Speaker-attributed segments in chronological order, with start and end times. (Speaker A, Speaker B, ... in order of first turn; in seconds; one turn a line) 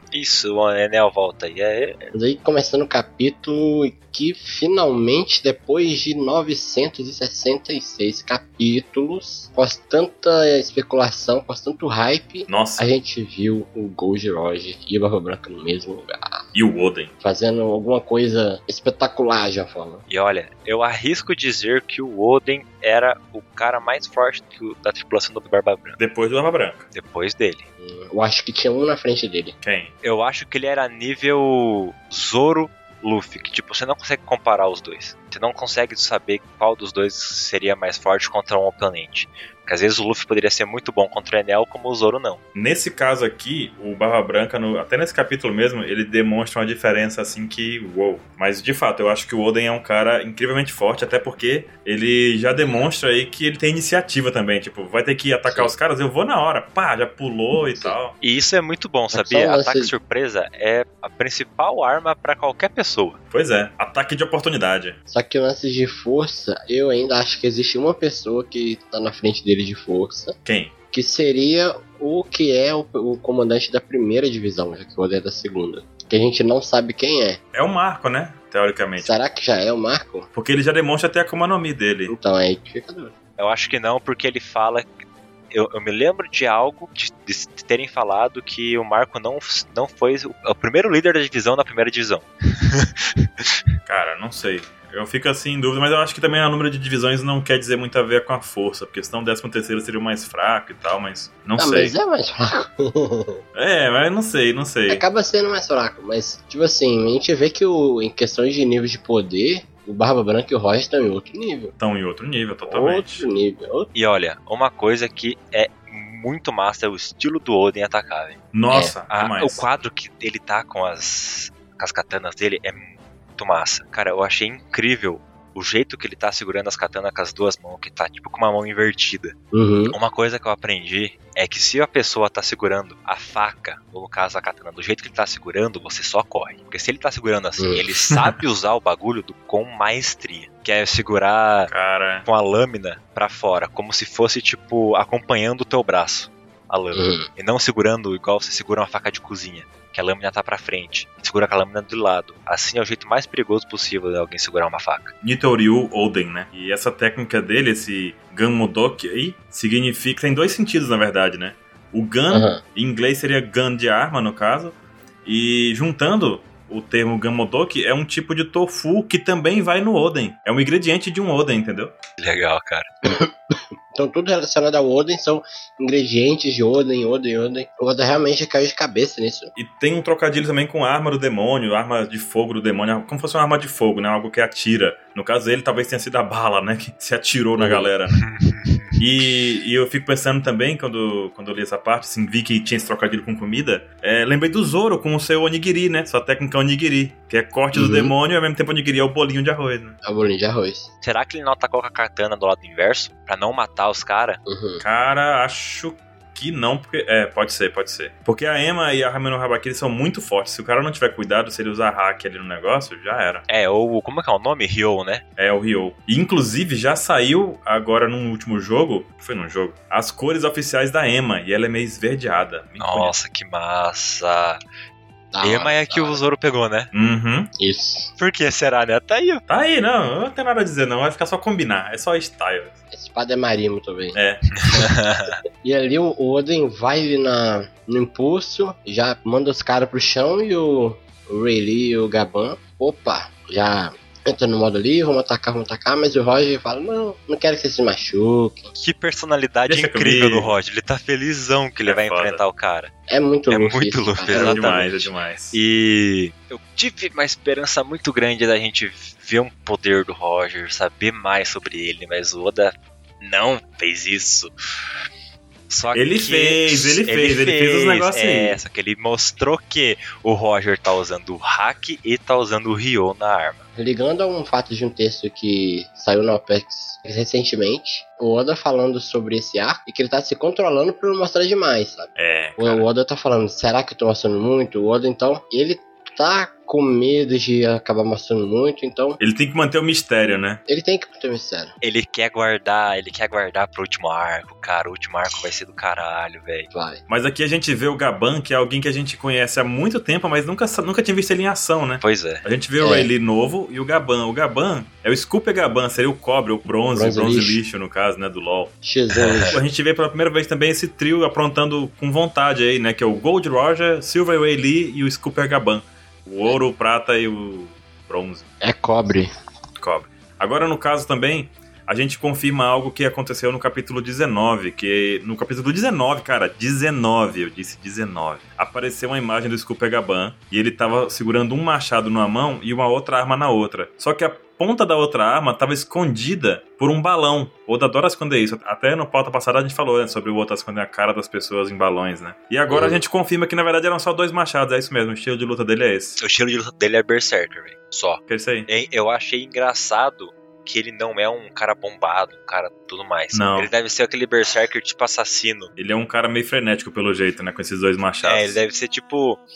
Speaker A: 0.1-2.1
Speaker B: 2.1-16.4
Speaker C: 12.5-12.9
Speaker C: 16.5-17.1
Speaker B: 17.2-20.0
Speaker A: 20.1-26.0
Speaker C: 26.0-26.9
Speaker A: 26.9-27.7
Speaker B: 27.8-29.5
Speaker C: 29.6-29.9
Speaker A: 30.0-42.4
Speaker C: 42.5-58.1
Speaker B: 57.6-58.0
Speaker A: 58.2-63.2
Speaker B: 59.1-59.9
Speaker C: 63.3-65.0
Speaker B: 65.1-70.4
Speaker C: 70.4-70.7
Speaker B: 70.9-77.4
Speaker C: 77.5-79.2
Speaker B: 79.0-80.3
Speaker C: 80.3-82.1
Speaker B: 82.1-83.1
Speaker A: 83.4-93.5
Speaker C: 93.8-101.9
Speaker B: 101.6-103.4
Speaker C: 103.5-105.0
Speaker B: 104.9-111.7
Speaker C: 111.8-113.2
Speaker B: 112.7-113.9
Speaker A: 113.9-118.4
Speaker C: 118.5-119.7
Speaker A: 119.1-129.3
Speaker B: 129.5-129.9
Speaker A: 129.9-141.7
Speaker B: 137.6-137.8
Speaker C: 141.7-142.3
Speaker A: 142.2-155.1
Speaker B: 146.9-147.3
Speaker C: 155.2-171.9
Speaker B: 162.3-162.6
Speaker A: 172.2-172.9
Speaker B: 173.9-179.5
Speaker C: 179.6-188.2
Speaker B: 187.6-187.9
Speaker A: 188.1-189.0
Speaker C: 189.0-200.0
Speaker B: 197.7-198.1
Speaker B: 200.0-200.9
Speaker A: 201.0-204.4
Speaker B: 204.4-204.8
Speaker C: 204.8-213.4
Speaker A: 213.5-215.2
Speaker C: 215.4-223.1
Speaker A: 222.8-224.6
Speaker B: 225.3-226.2
Speaker A: 225.4-226.9
Speaker C: 226.9-227.5
Speaker B: 227.6-228.1
Speaker A: 228.2-229.4
Speaker C: 229.5-232.8
Speaker B: 232.9-234.2
Speaker C: 234.1-234.4
Speaker A: 234.6-235.3
Speaker B: 235.6-248.7
Speaker A: 248.8-252.9
Speaker C: 249.7-250.5
Speaker C: 251.8-252.4
Speaker B: 253.1-255.1
Speaker A: 253.5-254.9
Speaker C: 254.3-255.6
Speaker A: 255.5-264.5
Speaker A: 265.7-273.6
Speaker C: 265.9-268.6
Speaker B: 273.8-289.2
Speaker C: 282.1-282.9
Speaker C: 289.2-290.6
Speaker B: 290.7-291.7
Speaker A: 291.8-296.7
Speaker B: 296.7-297.0
Speaker C: 297.1-308.7
Speaker A: 302.0-302.4
Speaker B: 302.8-303.1
Speaker B: 306.9-307.6
Speaker B: 308.8-309.6
Speaker A: 309.1-309.6
Speaker C: 309.5-318.5
Speaker B: 318.6-319.3
Speaker C: 319.8-346.2
Speaker B: 342.7-343.0
Speaker A: 346.2-355.7
Speaker C: 348.3-348.7
Speaker C: 353.3-353.7
Speaker C: 355.8-358.6
Speaker A: 358.2-359.4